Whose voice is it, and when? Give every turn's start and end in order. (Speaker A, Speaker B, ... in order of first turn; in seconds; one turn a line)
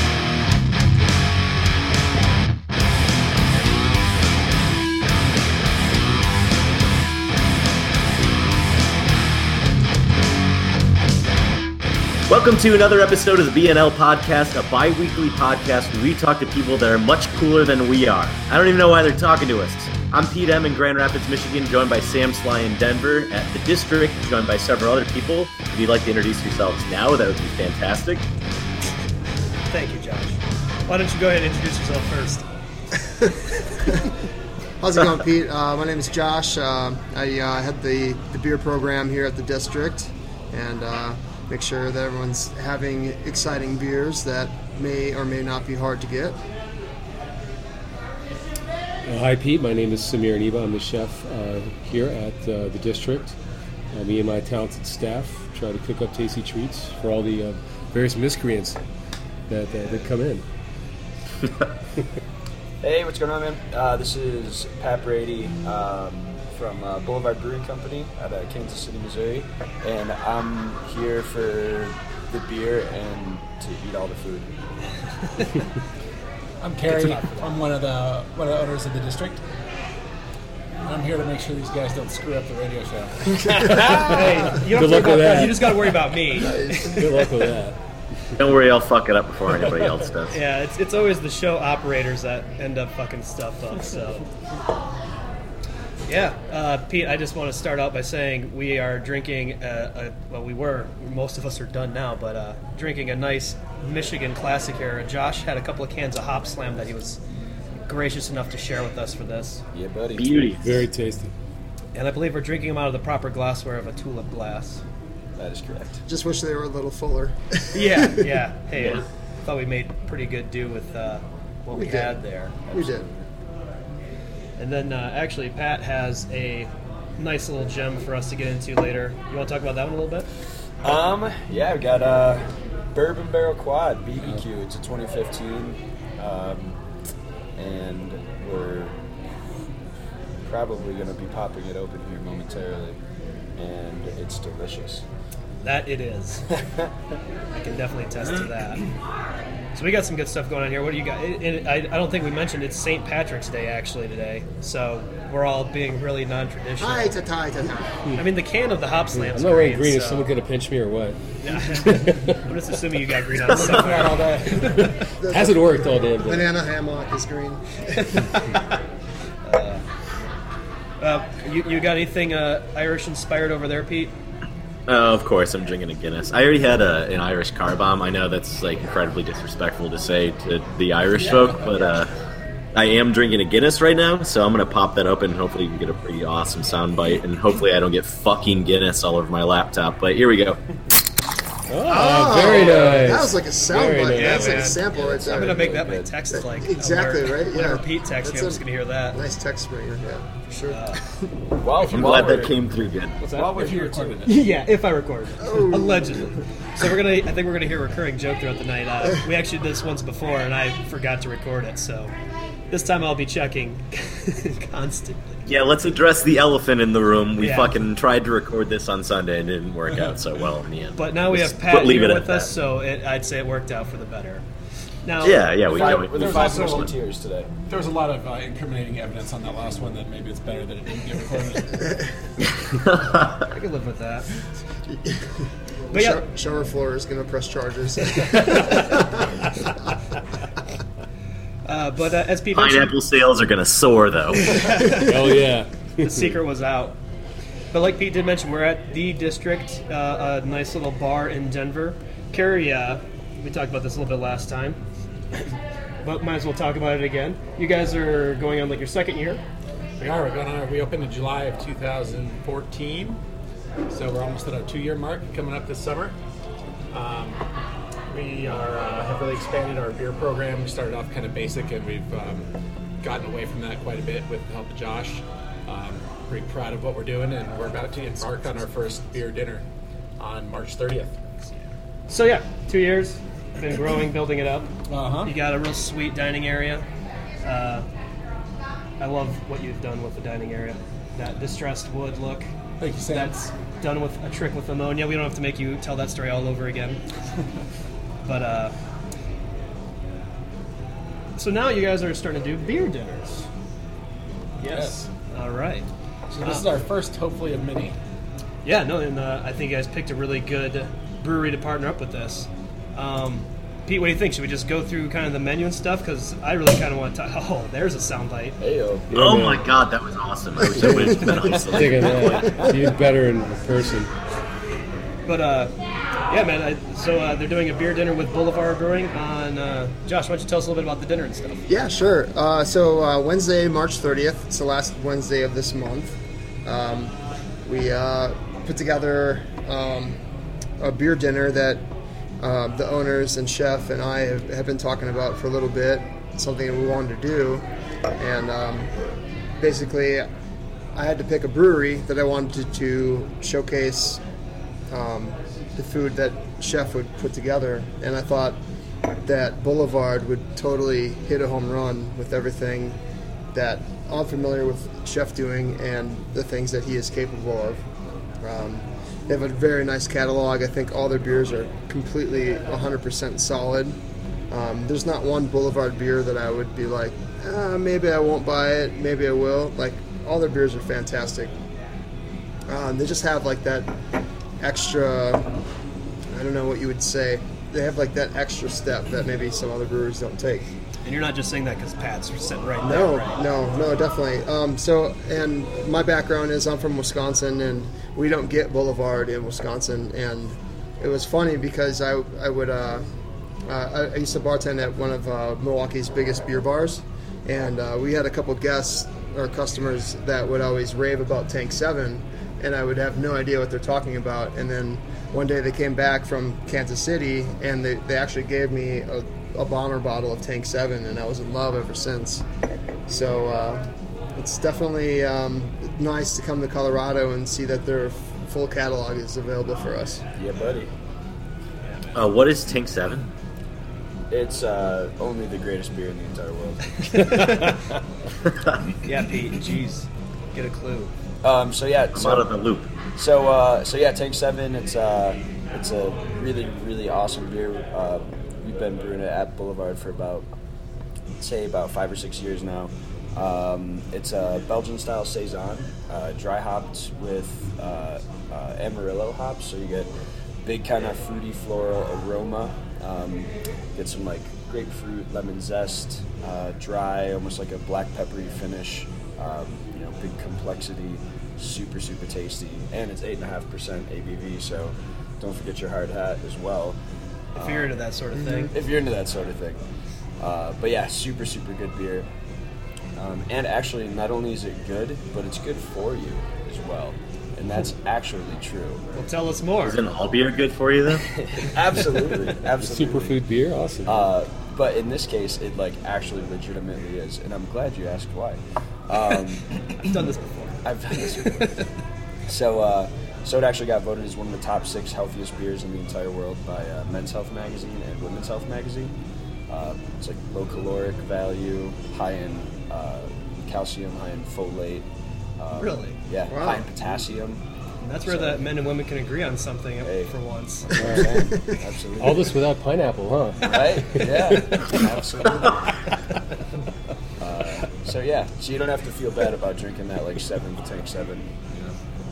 Speaker A: 12.3-28.2
Speaker B: 29.7-32.5
Speaker C: 34.8-46.4
Speaker D: 49.0-53.4
Speaker D: 53.9-58.8
Speaker D: 59.5-60.4
Speaker E: 62.8-74.5
Speaker F: 76.6-79.4
Speaker F: 80.8-83.4
Speaker C: 83.4-84.2
Speaker B: 83.5-87.0
Speaker D: 83.5-85.8
Speaker C: 86.3-87.2
Speaker D: 86.6-87.8
Speaker A: 88.3-90.4
Speaker B: 90.3-94.3
Speaker B: 96.1-107.2
Speaker B: 107.8-109.6
Speaker E: 109.7-110.5
Speaker A: 110.2-110.8
Speaker D: 110.6-111.3
Speaker B: 111.9-114.8
Speaker E: 115.4-116.0
Speaker C: 116.0-118.3
Speaker B: 117.7-122.6
Speaker C: 121.7-122.2
Speaker E: 122.7-123.3
Speaker C: 122.7-123.1
Speaker B: 124.6-130.3
Speaker E: 130.8-136.8
Speaker E: 137.6-139.0
Speaker E: 140.4-143.0
Speaker E: 143.6-145.0
Speaker B: 145.6-146.4
Speaker E: 146.5-146.9
Speaker B: 147.5-148.8
Speaker E: 148.2-148.5
Speaker B: 149.7-157.2
Speaker C: 156.8-158.1
Speaker B: 158.1-160.3
Speaker D: 159.3-162.4
Speaker B: 161.4-164.3
Speaker F: 163.5-164.8
Speaker D: 164.6-166.5
Speaker C: 165.2-168.3
Speaker B: 168.0-168.8
Speaker B: 169.4-169.8
Speaker B: 171.0-174.1
Speaker A: 174.9-182.1
Speaker A: 182.7-190.6
Speaker D: 191.7-194.8
Speaker C: 191.9-201.3
Speaker B: 194.1-199.2
Speaker E: 194.9-196.1
Speaker B: 200.7-201.0
Speaker E: 201.6-202.7
Speaker F: 201.9-202.2
Speaker A: 201.9-203.2
Speaker F: 203.2-204.3
Speaker E: 203.2-204.3
Speaker B: 204.2-212.1
Speaker C: 205.4-206.3
Speaker B: 212.7-215.4
Speaker A: 215.4-222.5
Speaker B: 217.4-217.8
Speaker B: 221.0-224.4
Speaker B: 225.0-225.5
Speaker A: 225.2-226.9
Speaker E: 225.2-227.5
Speaker F: 225.6-227.0
Speaker F: 227.7-231.9
Speaker A: 232.6-233.5
Speaker B: 233.5-234.3
Speaker C: 234.9-239.4
Speaker B: 235.9-236.2
Speaker B: 238.4-238.8
Speaker B: 241.6-242.9
Speaker A: 242.5-244.8
Speaker B: 244.3-245.4
Speaker D: 244.8-246.3
Speaker B: 246.0-246.9
Speaker B: 247.7-254.8
Speaker B: 256.0-259.4
Speaker F: 260.0-263.2
Speaker F: 263.9-266.1
Speaker F: 266.9-267.4
Speaker F: 268.1-272.5
Speaker F: 273.0-279.6
Speaker F: 280.2-281.2
Speaker B: 282.1-286.8
Speaker F: 284.9-285.4
Speaker B: 287.4-287.9
Speaker B: 289.0-292.5
Speaker F: 292.8-293.5
Speaker B: 293.1-297.0
Speaker B: 298.2-298.7
Speaker B: 301.4-303.5
Speaker F: 304.6-305.1
Speaker B: 304.6-305.9
Speaker F: 306.3-308.0
Speaker B: 308.6-318.6
Speaker E: 318.6-319.1
Speaker D: 319.1-319.6
Speaker A: 319.1-322.6
Speaker D: 320.8-324.1
Speaker E: 322.4-322.7
Speaker B: 325.2-325.7
Speaker B: 326.3-331.6
Speaker C: 331.7-340.2
Speaker C: 340.8-341.9
Speaker C: 342.4-348.9
Speaker C: 349.6-350.3
Speaker C: 350.9-354.2
Speaker C: 354.9-358.6
Speaker C: 359.2-363.0
Speaker C: 363.5-367.8
Speaker C: 368.4-374.0
Speaker C: 374.5-381.5
Speaker C: 382.7-383.9
Speaker C: 384.6-385.6
Speaker C: 386.3-390.7
Speaker B: 391.0-393.5
Speaker C: 392.8-403.0
Speaker C: 403.7-422.4
Speaker C: 423.1-430.2
Speaker E: 430.4-430.9
Speaker A: 432.1-433.3
Speaker E: 434.3-437.6
Speaker B: 437.1-437.8
Speaker B: 439.0-441.1
Speaker E: 441.4-442.6
Speaker A: 442.1-442.9
Speaker E: 443.1-450.5
Speaker E: 451.4-460.1
Speaker E: 460.6-477.0
Speaker E: 477.6-479.8
Speaker B: 477.6-478.7
Speaker E: 480.4-482.3
Speaker E: 483.1-489.1
Speaker B: 489.1-490.0
Speaker A: 489.8-491.2
Speaker E: 491.2-493.4
Speaker D: 492.8-494.3
Speaker E: 494.0-499.6
Speaker B: 500.0-501.9
Speaker E: 500.8-501.8
Speaker E: 502.5-509.1
Speaker E: 509.7-515.0
Speaker E: 515.6-517.6
Speaker B: 515.8-516.2
Speaker C: 516.5-516.8
Speaker B: 518.0-521.1
Speaker E: 518.2-518.6
Speaker E: 520.0-522.6
Speaker D: 521.0-521.3
Speaker D: 522.2-525.1
Speaker E: 523.6-526.0
Speaker E: 527.4-531.9